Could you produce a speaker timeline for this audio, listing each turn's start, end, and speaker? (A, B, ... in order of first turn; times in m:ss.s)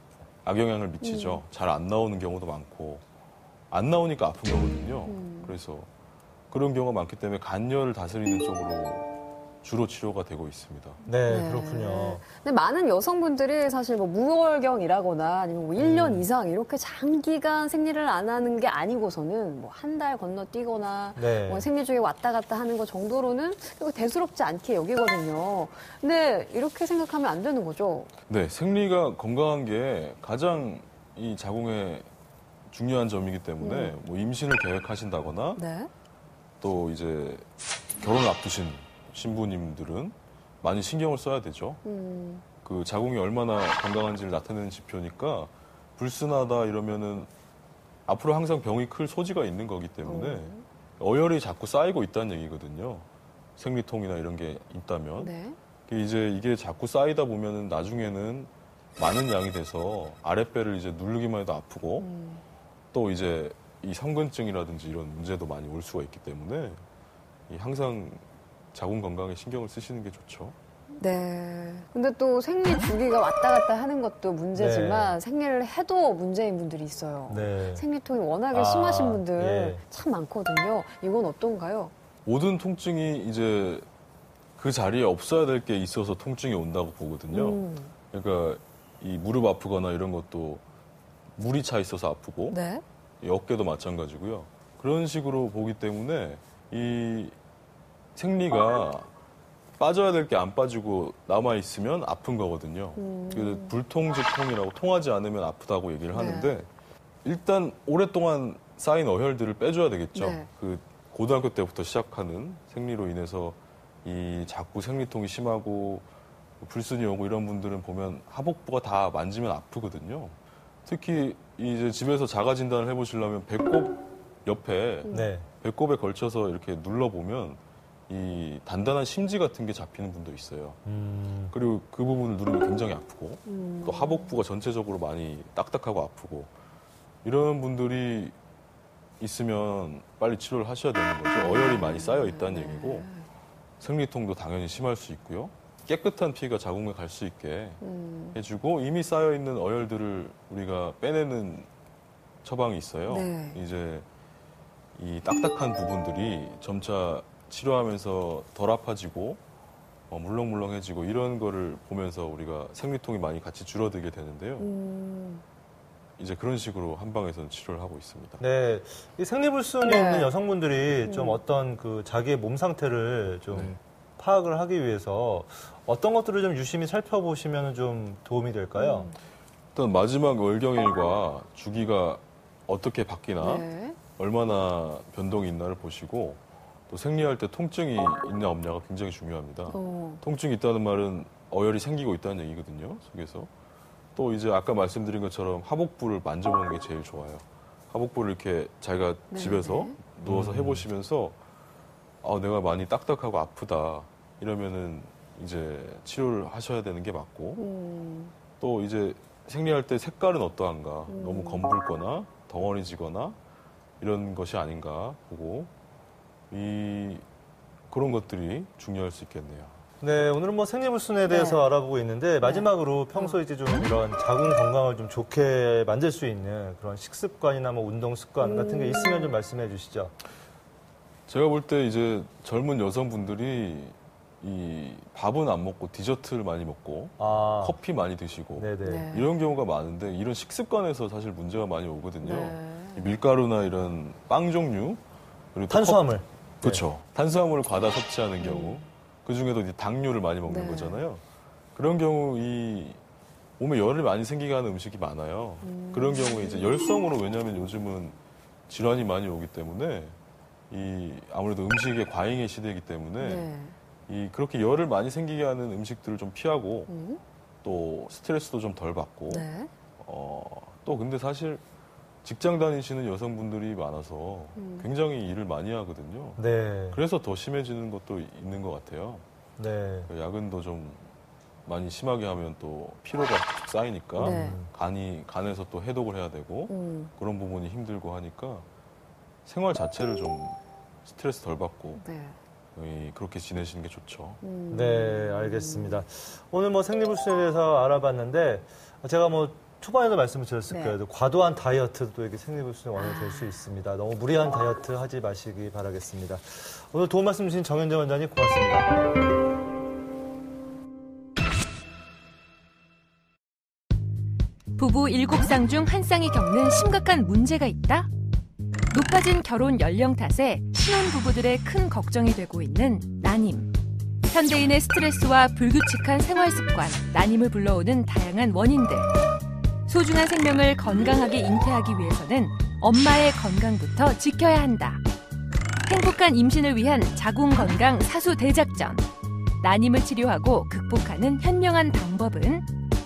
0:00.4-0:03.0 A
0:01.0-0:01.4 B
0:03.7-0:05.9 A
0:05.1-0:05.5 B
0:06.5-0:09.1 A
0:09.6-0:11.0 A
0:11.0-0:12.2 C
0:11.3-0:28.1 B
0:15.8-0:16.3 C
0:21.2-0:21.7 C
0:28.3-0:32.1 A
0:32.7-0:35.6 A
0:33.6-0:34.0 B
0:35.6-0:35.9 B
0:36.6-0:37.4 A
0:38.0-0:41.8 A
0:41.8-0:42.4 B
0:42.6-0:47.3 A
0:48.1-0:53.0 A
0:50.1-0:50.6 B
0:53.6-0:55.3 A
0:55.2-0:55.5 B
0:55.9-1:02.1 A
1:02.0-1:02.4 B
1:02.9-1:06.8 A
1:07.5-1:10.5 A
1:11.0-1:21.9 B
1:14.5-1:15.2 C
1:17.3-1:17.9 C
1:18.5-1:19.8 C
1:22.2-1:23.8 A
1:24.6-1:30.6 A
1:27.3-1:27.9 B
1:31.4-1:32.6 A
1:32.5-1:32.8 B
1:33.2-1:37.3 A
1:38.1-1:39.1 A
1:39.8-1:46.7 A
1:43.0-1:43.7 B
1:46.1-1:46.5 B
1:47.2-1:56.0 A
1:50.2-1:50.5 B
1:56.6-2:10.8 A
2:05.1-2:05.5 C
2:10.8-2:11.5 C
2:11.5-2:16.5 A
2:13.4-2:14.1 B
2:17.2-2:18.4 A
2:19.2-2:23.1 A
2:21.4-2:23.1 B
2:23.8-2:27.8 A
2:27.8-2:28.4 B
2:28.3-2:31.7 A
2:32.4-2:34.0 A
2:33.1-2:33.6 B
2:34.9-2:39.4 A
2:40.1-2:44.7 A
2:44.6-2:45.4 B
2:46.2-2:48.4 A
2:48.4-2:59.1 C
2:51.0-2:51.3 B
2:59.7-3:13.5 A
3:03.4-3:04.0 B
3:09.7-3:10.2 B
3:14.1-3:21.4 A
3:19.3-3:19.9 B
3:20.2-3:20.9 C
3:22.2-3:27.6 A
3:27.6-3:28.3 B
3:28.6-3:33.4 A
3:31.1-3:31.6 B
3:34.0-3:35.7 A
3:36.5-3:37.2 A
3:37.9-3:39.8 A
3:40.0-3:50.1 C
3:41.3-3:41.6 B
3:48.4-3:49.3 B
3:51.3-4:05.0 A
3:57.2-3:57.8 C
3:58.6-3:59.1 C
4:02.3-4:03.0 B
4:05.5-4:11.2 A
4:05.7-4:06.8 C
4:10.5-4:11.0 B
4:11.7-4:13.0 A
4:13.6-4:18.2 A
4:15.6-4:16.4 B
4:18.7-4:20.2 A
4:20.7-4:23.5 A
4:23.2-4:23.7 B
4:24.1-4:26.9 A
4:26.9-4:27.2 B
4:27.6-4:29.5 A
4:29.3-4:29.7 B
4:30.0-4:31.6 A
4:32.2-4:39.2 A
4:34.6-4:34.9 B
4:36.4-4:37.0 C
4:39.6-4:40.1 C
4:40.1-4:41.1 A
4:41.6-4:48.6 A
4:44.2-4:44.7 C
4:44.3-4:44.5 B
4:46.7-4:47.1 B
4:49.4-4:52.0 A
4:52.0-4:52.4 B
4:52.7-4:54.4 A
4:54.4-4:56.0 B
4:54.7-5:08.9 C
5:14.8-5:18.1 B
5:18.9-5:23.7 B
5:24.3-5:29.1 B
5:29.8-5:35.0 B
5:35.8-5:39.1 B
5:39.6-5:42.7 B